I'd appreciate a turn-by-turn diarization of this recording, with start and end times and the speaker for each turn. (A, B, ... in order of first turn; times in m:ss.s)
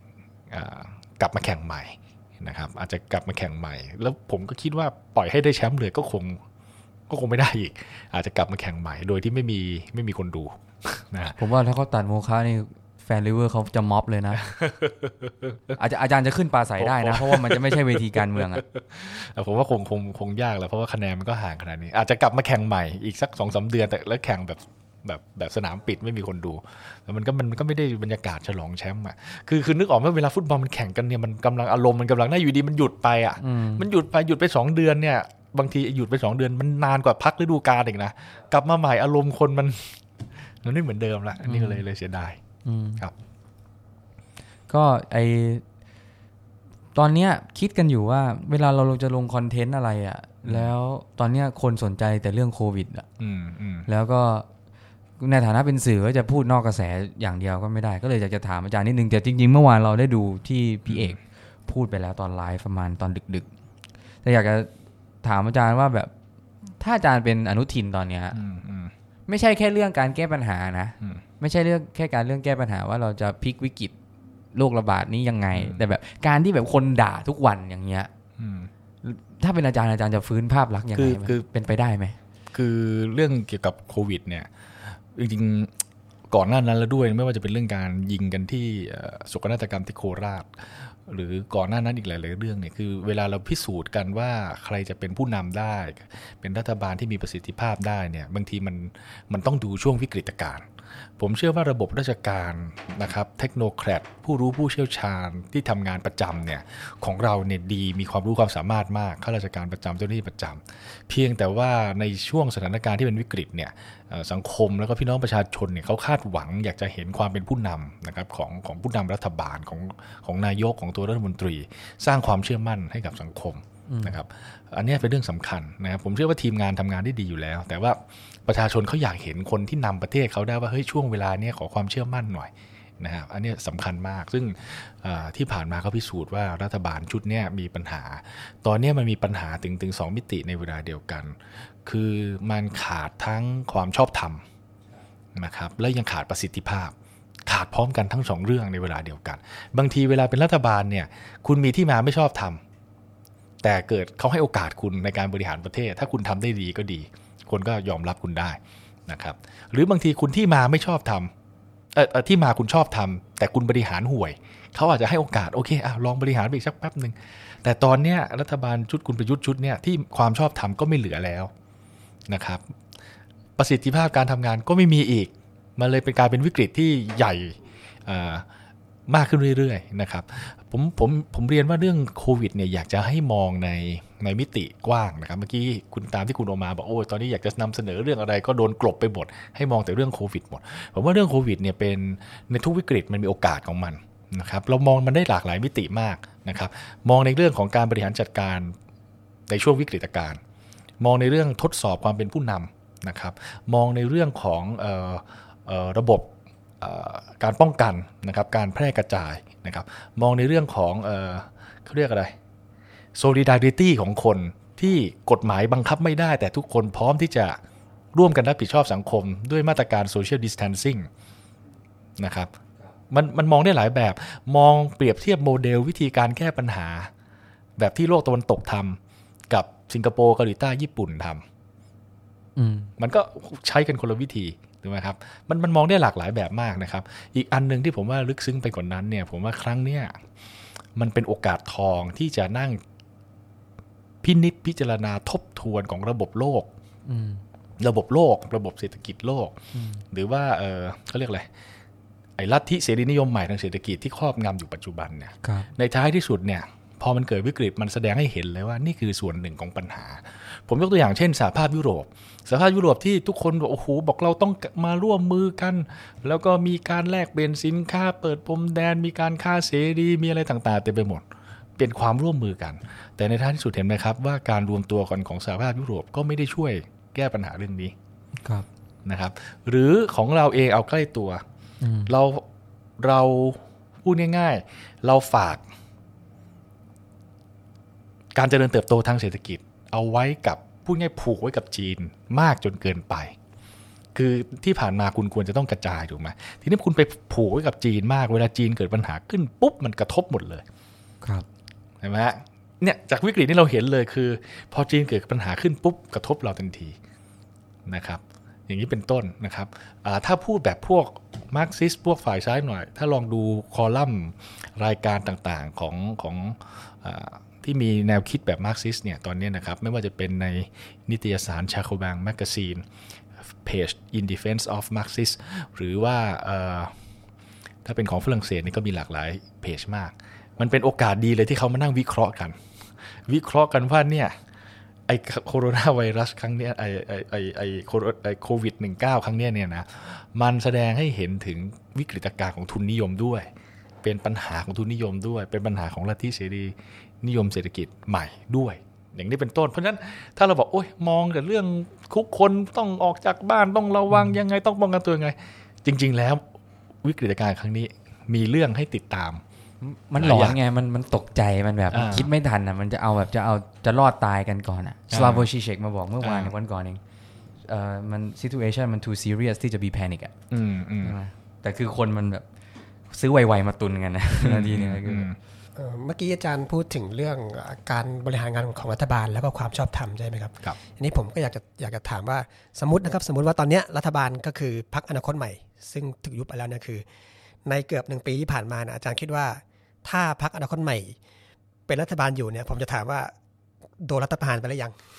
0:00.5-0:06.4 A
0:07.1-0:11.4 A
0:11.4-0:14.4 B
0:14.4-0:15.8 A
0:15.8-0:18.6 B
0:16.8-0:42.4 A
0:33.4-0:33.9 B
0:41.4-0:41.8 B
0:42.6-0:43.1 B
0:44.7-0:45.6 B
0:47.0-0:53.1 B
0:50.4-0:50.7 A
0:53.2-0:53.9 A
0:53.9-0:54.5 B
0:55.2-1:03.5 B
1:00.9-1:01.2 A
1:04.2-1:04.7 B
1:05.2-1:06.1 B
1:06.8-1:08.4 B
1:08.3-1:08.9 A
1:09.3-1:13.9 B
1:14.5-1:18.1 B
1:15.5-1:15.9 A
1:18.4-1:18.7 A
1:19.0-1:22.2 B
1:21.0-1:21.4 A
1:22.5-1:25.7 A
1:26.3-1:40.7 A
1:41.2-2:24.4 A
2:03.9-2:04.2 B
2:25.4-2:26.9 A
2:27.5-2:32.6 A
2:33.6-2:41.3 A
2:41.9-2:51.5 A
2:52.3-2:52.6 A
2:53.6-2:58.4 A
2:59.1-3:18.7 A
3:19.5-3:20.4 A
3:21.0-3:32.3 A
3:33.2-3:37.6 A
3:38.2-3:41.1 A
3:42.2-3:42.5 A
3:43.1-3:47.1 A
3:47.8-3:49.0 A
3:49.5-3:51.4 A
3:52.6-3:52.9 B
3:53.0-4:00.2 A
4:01.0-4:02.8 A
4:04.2-4:06.7 A
4:07.1-4:07.4 B
4:07.8-4:09.6 A
4:09.7-4:10.0 B
4:10.1-4:11.5 A
4:12.4-4:31.2 A
4:15.4-4:15.7 B
4:31.8-4:37.9 A
4:39.0-4:41.4 A
4:41.8-4:42.1 B
4:42.1-4:42.4 A
4:43.0-4:45.6 A
4:48.4-4:53.4 A
4:54.2-5:00.6 A
5:02.0-5:07.0 A
5:07.9-5:22.8 A
5:23.6-5:26.9 A
5:27.8-5:32.6 A
5:33.1-5:34.4 A
5:35.1-5:43.5 A
5:44.0-5:56.4 A
5:54.1-5:54.4 B
5:57.0-5:59.4 A
5:59.8-6:07.0 B
6:00.2-6:00.6 A
6:01.9-6:02.3 A
6:05.1-6:05.5 A
6:06.2-6:06.6 A
6:07.6-6:10.3 B
6:10.5-6:11.2 A
6:11.0-6:12.4 B
6:13.1-6:15.3 B
6:14.4-6:15.4 A
6:15.8-6:27.0 C
6:27.7-6:31.2 C
6:31.9-6:33.3 C
6:34.0-6:35.0 C